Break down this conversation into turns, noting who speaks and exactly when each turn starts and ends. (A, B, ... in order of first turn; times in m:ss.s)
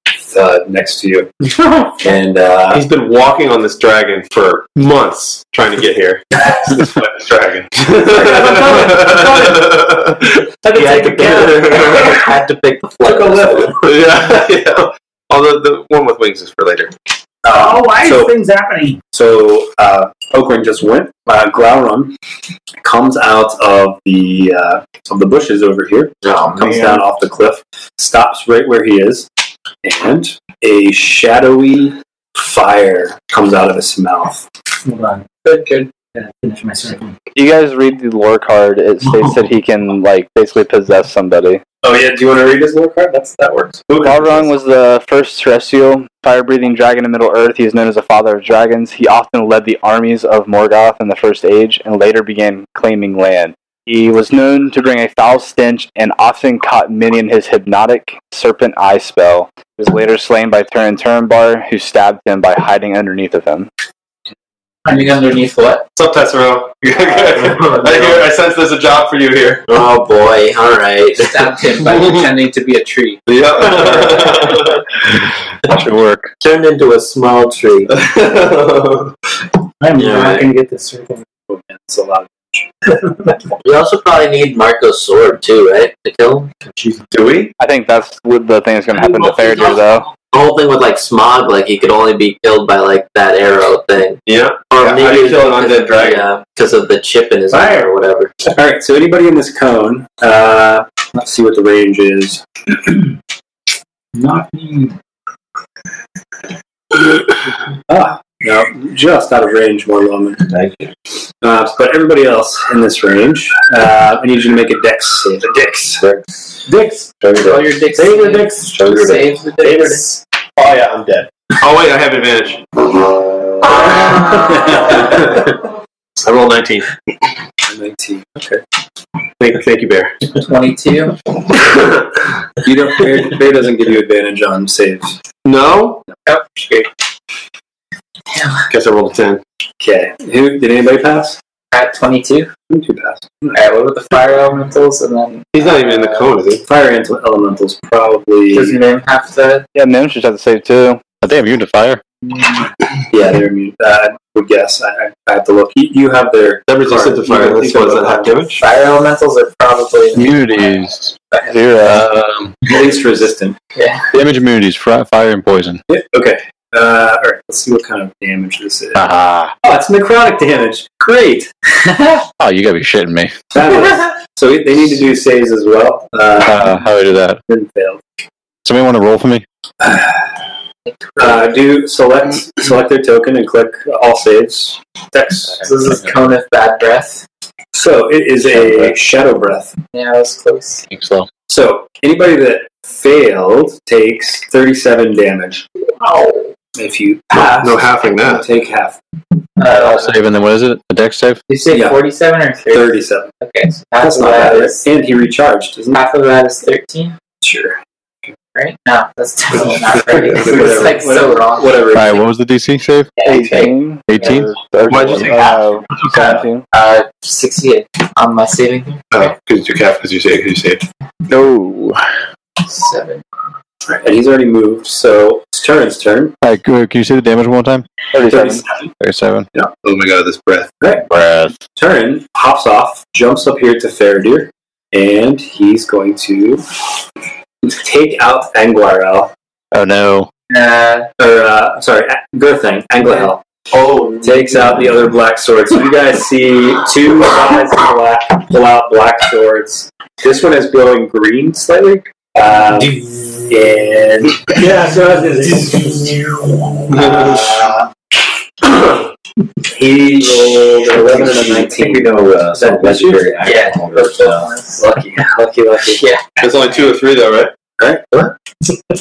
0:00.3-0:02.9 A
0:02.7-0:12.3 B
0:08.0-0:09.8 C
0:10.7-0:11.8 C
0:10.7-0:13.8 D
0:13.0-0:13.7 A
0:13.7-0:16.9 B
0:17.4-0:18.3 A
0:17.5-0:19.0 C
0:19.1-0:22.1 A
0:22.8-0:29.3 A
0:26.2-0:27.0 D
0:29.8-0:34.4 A
0:34.8-0:35.2 C
0:35.4-0:35.9 E
0:36.1-0:37.1 C
0:37.3-0:41.6 F
0:41.8-0:44.5 A
0:44.0-1:03.7 F
1:04.8-1:05.9 E
1:06.0-1:09.6 B
1:07.4-1:08.2 D
1:09.7-1:11.5 D
1:11.2-1:13.2 E
1:13.3-1:14.8 B
1:13.8-1:14.4 D
1:15.7-1:16.3 G
1:16.4-1:17.9 D
1:17.9-1:19.1 B
1:19.8-1:21.2 C
1:19.9-1:20.5 D
1:21.5-1:22.7 A
1:23.6-1:26.6 D
1:26.7-1:27.0 C
1:27.1-1:27.5 B
1:27.6-1:30.0 F
1:29.1-1:29.4 B
1:30.3-1:38.3 D
1:34.2-1:36.3 B
1:37.5-1:37.9 C
1:38.5-1:42.4 A
1:44.1-1:44.9 C
1:47.9-1:50.5 A
1:51.4-1:56.0 A
1:56.6-1:59.2 C
1:57.4-2:00.2 E
1:59.6-2:00.0 B
2:00.6-2:02.8 B
2:03.7-2:05.6 B
2:06.2-2:06.9 B
2:07.6-2:08.6 A
2:09.4-2:10.2 B
2:10.2-2:11.2 E
2:11.6-2:12.0 B
2:12.6-2:15.2 A
2:15.4-2:16.0 B
2:16.2-2:16.9 E
2:18.3-2:18.7 E
2:18.7-2:19.4 B
2:19.8-2:21.4 A
2:21.7-2:22.5 E
2:22.7-2:23.8 A
2:23.5-2:26.4 E
2:25.5-2:26.6 B
2:26.6-2:28.8 A
2:28.5-2:29.6 E
2:29.7-2:31.0 F
2:31.2-2:32.0 G
2:32.3-2:32.7 E
2:33.1-2:38.6 A
2:36.7-2:38.6 B
2:38.6-2:40.4 E
2:40.1-2:41.1 G
2:41.3-2:42.0 E
2:41.5-2:42.0 F
2:41.8-2:42.6 G
2:42.6-2:43.6 A
2:43.8-2:44.0 E
2:44.1-2:45.8 G
2:45.9-2:51.5 A
2:48.9-2:49.5 G
2:51.9-2:52.2 E
2:52.4-2:53.3 G
2:53.5-2:56.8 A
2:56.4-2:57.4 G
2:57.4-2:58.0 A
2:58.6-2:59.4 G
2:59.8-3:00.3 A
3:00.9-3:01.6 E
3:01.2-3:05.6 A
3:05.5-3:07.2 E
3:05.6-3:06.2 G
3:07.7-3:09.8 A
3:08.4-3:08.9 G
3:09.9-3:10.8 E
3:10.9-3:11.3 G
3:11.5-3:15.6 A
3:16.0-3:16.5 E
3:16.7-3:19.0 A
3:17.3-3:18.5 B
3:19.6-3:20.1 E
3:19.6-3:21.4 G
3:21.5-3:24.8 E
3:21.6-3:22.0 A
3:22.7-3:23.3 A
3:24.0-3:26.0 A
3:25.9-3:27.1 E
3:27.4-3:28.3 A
3:28.5-3:32.0 E
3:29.5-3:30.9 B
3:30.3-3:32.2 A
3:31.9-3:33.1 G
3:33.2-3:34.4 E
3:33.2-3:36.6 F
3:34.1-3:34.5 G
3:34.9-3:36.1 B
3:36.1-3:39.2 E
3:39.1-3:40.8 B
3:41.3-3:42.0 F
3:42.6-3:43.2 E
3:43.9-3:46.3 A
3:46.4-3:47.8 G
3:48.1-3:48.6 F
3:48.3-3:48.9 A
3:49.0-3:49.5 G
3:49.6-3:50.8 B
3:51.1-3:51.5 G
3:51.7-3:56.6 A
3:57.6-3:59.3 A
3:59.7-4:00.3 G
4:00.5-4:01.1 E
4:01.2-4:03.4 A
4:03.7-4:04.8 B
4:04.2-4:14.6 A
4:14.5-4:16.6 C
4:16.9-4:17.8 B
4:17.0-4:17.8 A
4:19.6-4:23.4 A
4:21.5-4:24.5 G
4:23.4-4:24.9 E
4:24.8-4:26.0 A
4:25.9-4:26.4 E
4:26.4-4:27.5 B
4:27.8-4:28.3 A